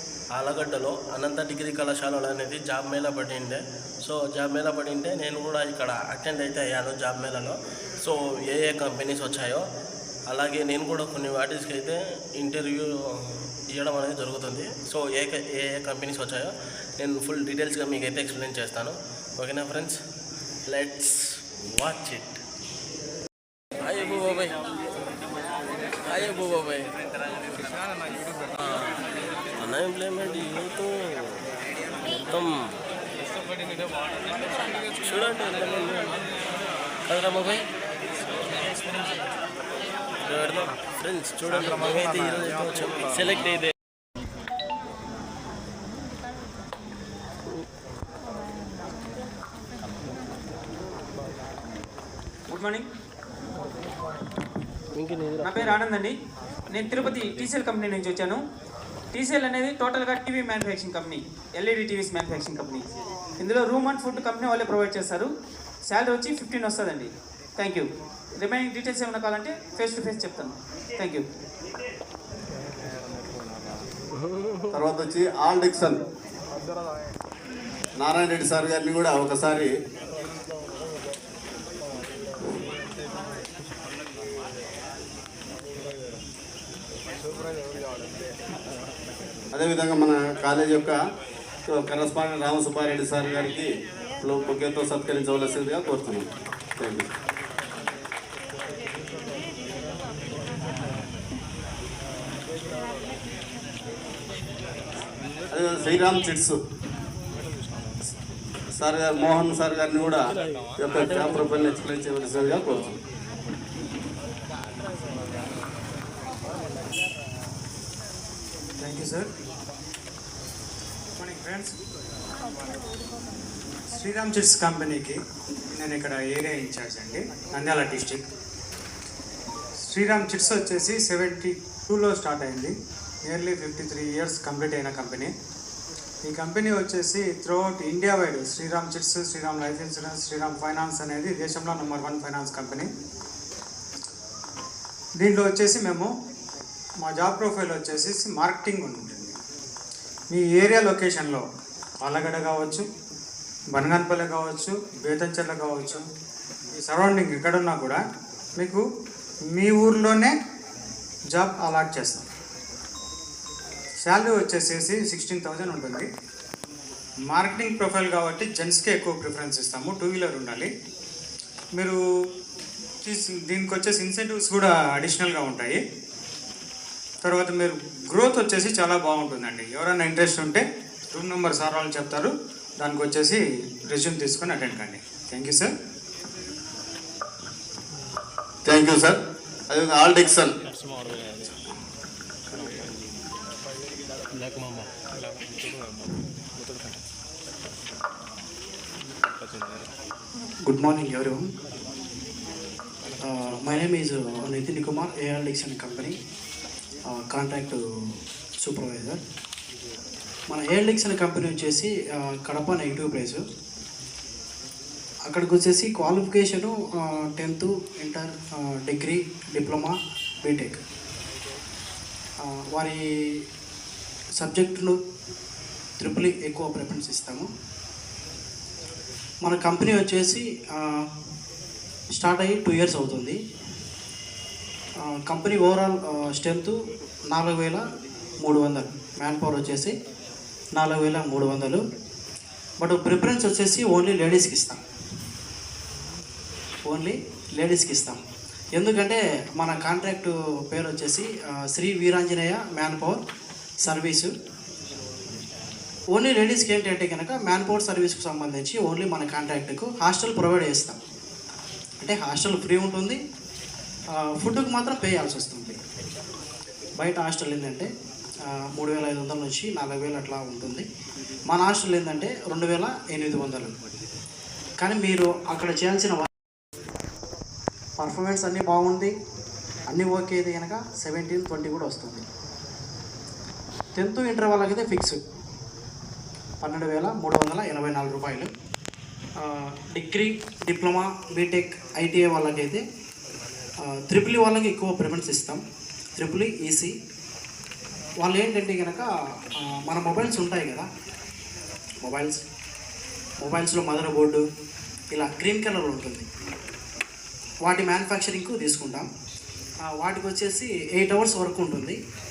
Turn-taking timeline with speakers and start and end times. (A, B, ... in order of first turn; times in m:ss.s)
0:00.3-0:09.6 A
0:10.3-0:20.0 A
0:20.7-0:22.4 A
0:23.8-0:24.6 A
0:26.0-0:26.9 A
0:29.6-0:31.4 A
0:32.1-0:32.7 A
0:35.0-0:36.2 A
0:37.1-0:37.6 A
0:38.5-0:38.9 A
0:40.2-0:43.7 A
0:52.5-0:52.8 B
0:54.9-0:55.8 A
0:55.4-0:56.1 B
0:56.7-0:58.4 B
0:57.1-0:57.4 A
0:59.1-1:02.8 B
1:03.4-1:05.3 B
1:05.8-1:11.2 B
1:14.7-1:16.0 C
1:18.0-1:19.7 C
1:29.5-1:31.0 C
1:31.7-1:33.7 C
1:34.2-1:36.2 C
1:36.8-1:37.1 C
1:45.5-1:46.6 C
1:48.8-1:50.2 C
1:50.8-1:52.9 C
1:50.8-1:51.7 A
1:58.8-1:59.2 D
2:01.2-2:01.7 D
2:03.9-2:05.2 D
2:05.8-2:08.2 D
2:09.9-2:12.7 D
2:13.3-2:15.3 D
2:16.2-2:22.9 D
2:25.2-2:26.1 D
2:27.0-2:29.3 D
2:30.3-2:31.4 D
2:32.0-2:32.8 D
2:33.7-2:36.0 D
2:36.8-2:38.0 D
2:39.5-2:40.3 D
2:41.3-2:42.2 D
2:44.0-2:46.1 D
2:47.3-2:50.7 D
2:53.0-2:55.8 D
2:57.2-3:00.6 D
3:01.1-3:02.3 D
3:02.8-3:03.4 D
3:03.9-3:05.7 D
3:08.6-3:09.2 C
3:09.7-3:10.5 C
3:14.3-3:14.9 A
3:20.6-3:21.4 E
3:23.2-3:26.1 E
3:27.1-3:27.8 E
3:28.6-3:29.2 E
3:30.5-3:33.4 E
3:35.3-3:38.3 E
3:38.8-3:40.8 E
3:42.4-3:43.4 E
3:44.4-3:44.9 E
3:46.0-3:47.5 E
3:49.4-3:51.0 E
3:52.1-3:53.4 E
3:55.2-3:56.8 E
3:57.3-3:57.8 E
3:58.4-3:59.9 E
4:00.7-4:01.8 E
4:02.8-4:04.8 E
4:06.8-4:08.2 E
4:08.7-4:13.2 E
4:13.8-4:14.3 E
4:16.1-4:21.0 E
4:22.0-4:23.2 E
4:24.2-4:25.8 E
4:27.0-4:27.9 E
4:28.7-4:30.8 E
4:31.5-4:33.7 E
4:34.8-4:36.3 E
4:38.0-4:39.1 E
4:39.9-4:42.2 E
4:44.0-4:45.2 E
4:46.6-4:48.5 E
4:49.4-4:52.8 E
4:53.9-4:55.6 E
4:56.2-4:56.9 E
4:58.2-4:59.1 E
4:59.6-5:00.9 E
5:02.0-5:02.4 E
5:03.4-5:04.4 E
5:05.1-5:06.2 E
5:07.6-5:09.0 E
5:09.9-5:12.0 E